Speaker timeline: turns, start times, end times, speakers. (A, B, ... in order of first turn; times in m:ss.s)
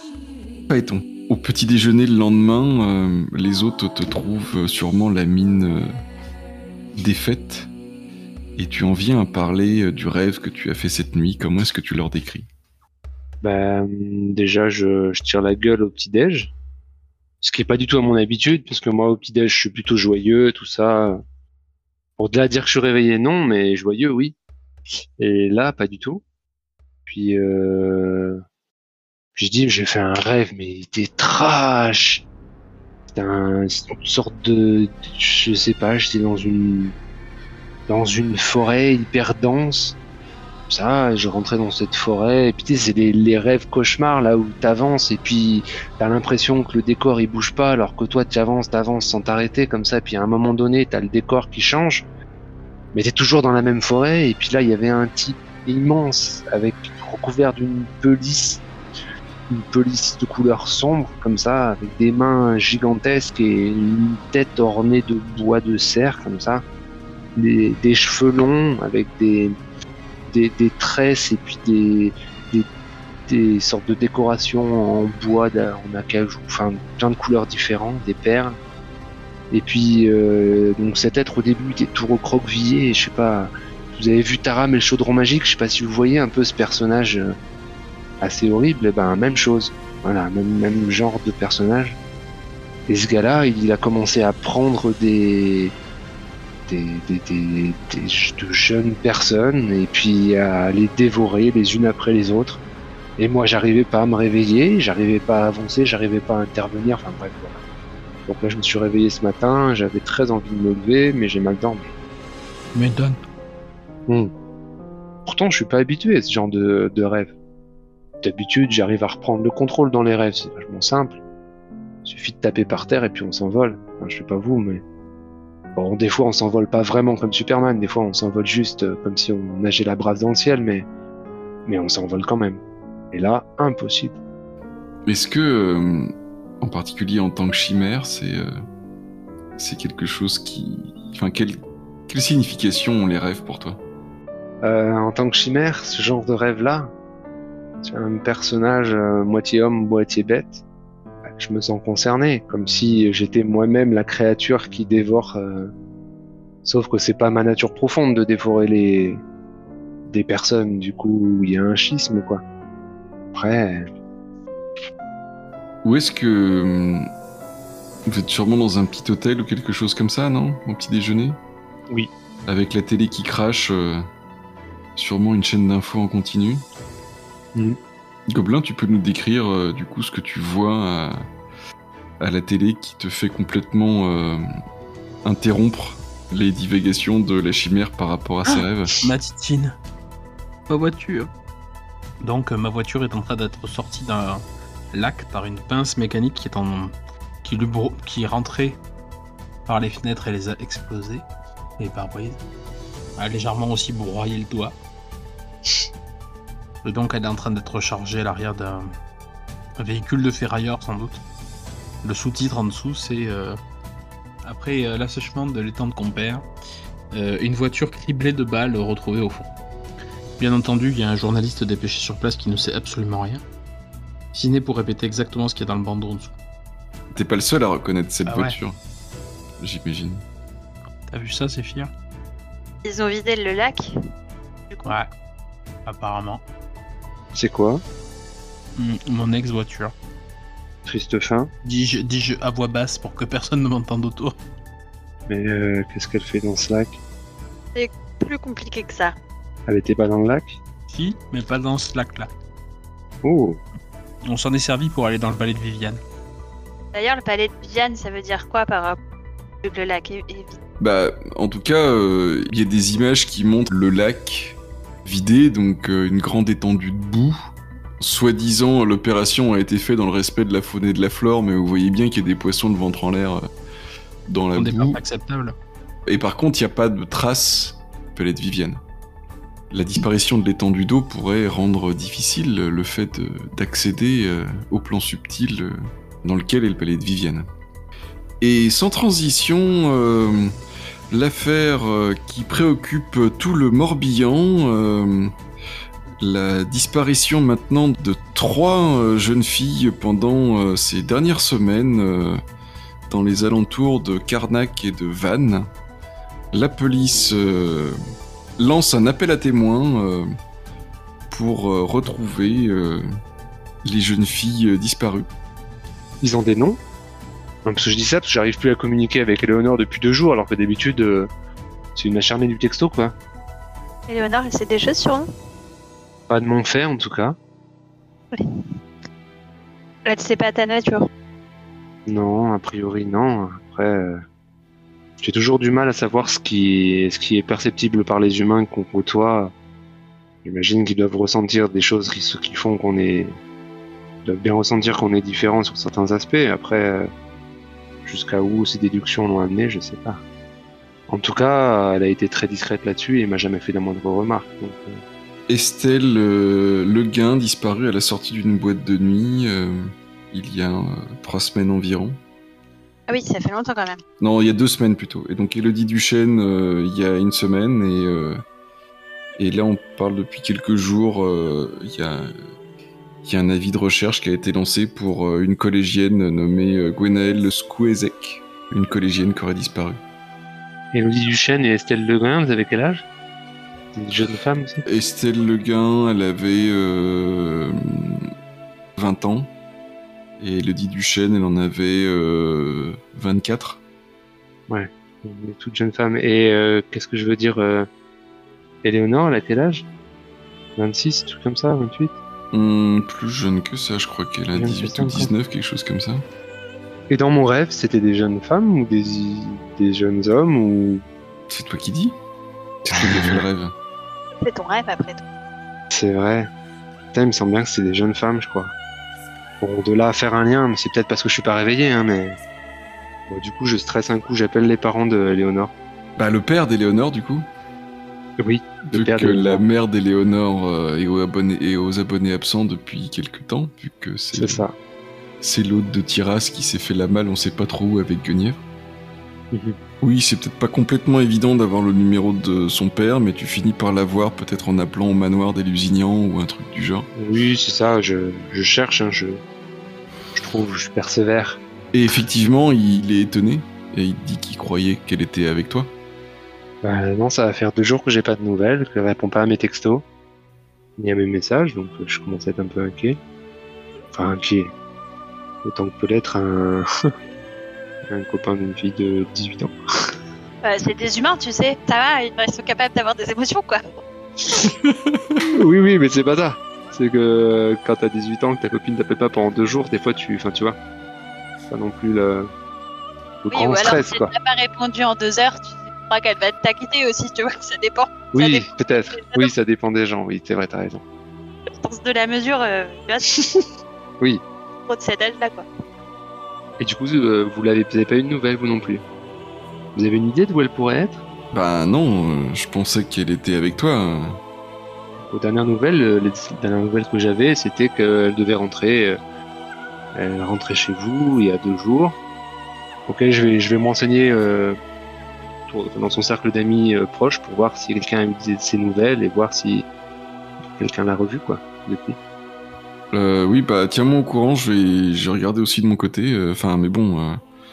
0:00.7-0:05.9 A
0:06.9-0:07.7 A
0:08.6-0:12.5 A
0:13.4-0:16.5 B
0:17.4-0:21.2 B
0:22.2-0:24.4 B
0:25.2-0:26.2 B
0:27.1-0:28.4 B
0:29.4-0:32.2 B
0:33.1-0:36.9 B
0:37.9-0:40.0 B
0:40.7-0:52.0 B
0:52.9-0:58.6 B
0:59.5-1:06.6 B
1:07.3-1:09.6 B
1:10.3-1:12.7 B
1:13.3-1:18.6 B
1:19.5-1:27.3 B
1:28.2-1:32.0 B
1:32.9-1:35.7 B
1:36.7-1:42.6 B
1:43.2-1:47.6 B
1:48.3-1:51.9 B
1:52.7-1:53.2 C
1:55.2-1:57.3 B
1:58.2-2:01.2 B
2:02.0-2:04.8 B
2:05.7-2:10.9 B
2:11.6-2:14.2 B
2:15.1-2:18.5 A
2:19.6-2:23.8 A
2:24.6-2:26.9 B
2:27.8-2:30.6 B
2:31.2-2:35.7 B
2:36.6-2:39.2 B
2:40.1-2:42.4 B
2:43.3-2:43.9 B
2:45.8-2:47.1 A
2:48.0-2:51.4 A
2:52.4-2:54.1 A
2:55.0-2:56.6 A
2:58.3-3:01.2 A
3:02.2-3:04.4 A
3:05.2-3:08.9 A
3:08.5-3:09.8 C
3:10.7-3:11.3 C
3:12.2-3:18.8 C
3:19.7-3:21.2 C
3:21.8-3:22.4 C
3:23.2-3:24.8 C
3:26.8-3:28.9 C
3:29.8-3:31.2 C
3:32.0-3:33.6 C
3:34.4-3:36.4 C
3:37.1-3:39.5 C
3:40.4-3:43.4 C
3:44.3-3:46.3 C
3:47.1-3:48.8 A
3:48.2-3:48.6 C
3:49.6-3:50.2 A
3:51.1-3:51.9 C
3:52.8-3:53.9 D
3:54.7-3:54.9 D
3:55.8-3:56.4 C
3:57.3-3:57.8 B
3:58.8-3:59.9 C
4:00.8-4:01.5 B
4:01.6-4:04.4 C
4:05.3-4:07.0 B
4:07.7-4:09.1 D
4:09.7-4:10.6 B
4:10.9-4:12.3 C
4:13.2-4:13.6 B
4:14.2-4:16.0 C
4:16.9-4:19.0 D
4:19.6-4:20.6 D
4:20.8-4:27.4 A
4:28.0-4:33.5 A
4:34.3-4:35.0 A
4:34.5-4:35.5 C
4:36.0-4:38.8 A
4:39.7-4:47.5 A
4:48.4-4:50.5 A
4:51.1-4:55.3 A
4:56.2-5:02.4 A
5:03.1-5:05.7 A
5:06.5-5:08.0 A
5:08.6-5:10.3 A
5:11.3-5:13.0 A
5:13.8-5:15.3 A
5:16.2-5:16.8 B
5:17.6-5:21.3 B
5:22.0-5:23.1 B
5:24.1-5:25.2 D
5:26.3-5:27.4 B
5:30.0-5:31.1 D
5:32.0-5:34.2 B
5:35.2-5:39.5 B
5:40.4-5:43.4 B
5:44.2-5:47.1 B
5:48.0-5:50.2 B
5:51.1-5:55.0 B
5:55.5-6:02.2 A
6:03.1-6:04.0 D
6:04.2-6:08.4 A
6:09.4-6:12.3 A
6:13.2-6:20.0 A
6:20.9-6:23.0 B
6:23.9-6:24.8 B
6:24.8-6:28.3 A
6:29.0-6:29.5 A
6:30.4-6:33.8 A
6:34.7-6:37.9 B
6:38.8-6:39.9 B
6:40.8-6:42.1 B
6:42.5-6:46.2 A
6:44.5-6:45.3 B
6:47.1-6:51.0 B
6:51.5-6:52.2 A
6:52.8-6:53.4 B
6:52.9-6:53.7 A
6:54.4-6:55.2 D
6:55.9-6:56.5 B
6:57.1-6:58.7 B
6:59.6-7:02.4 B
7:03.3-7:05.7 B
7:06.2-7:07.5 A
7:08.4-7:09.6 B
7:08.9-7:14.6 A
7:14.3-7:14.7 B
7:15.4-7:18.6 A
7:19.5-7:19.8 B
7:20.0-7:27.1 A
7:27.1-7:29.4 B
7:30.3-7:31.6 B
7:31.9-7:35.9 A
7:36.8-7:40.0 B
7:41.0-7:43.2 B
7:44.1-7:44.7 B
7:45.6-7:47.1 B
7:48.1-7:49.7 B
7:50.6-7:53.8 D
7:54.5-7:54.7 B
7:55.5-8:00.8 B
8:01.7-8:02.5 B
8:03.4-8:04.3 B
8:03.5-8:09.5 D
8:08.3-8:11.0 B
8:11.8-8:13.3 D
8:14.9-8:15.6 D
8:16.8-8:19.0 B
8:20.0-8:21.2 B
8:21.5-8:24.4 A
8:25.2-8:29.2 B
8:30.1-8:32.2 B
8:33.1-8:34.8 B
8:35.7-8:39.9 B
8:40.6-8:42.2 B
8:43.1-8:47.4 A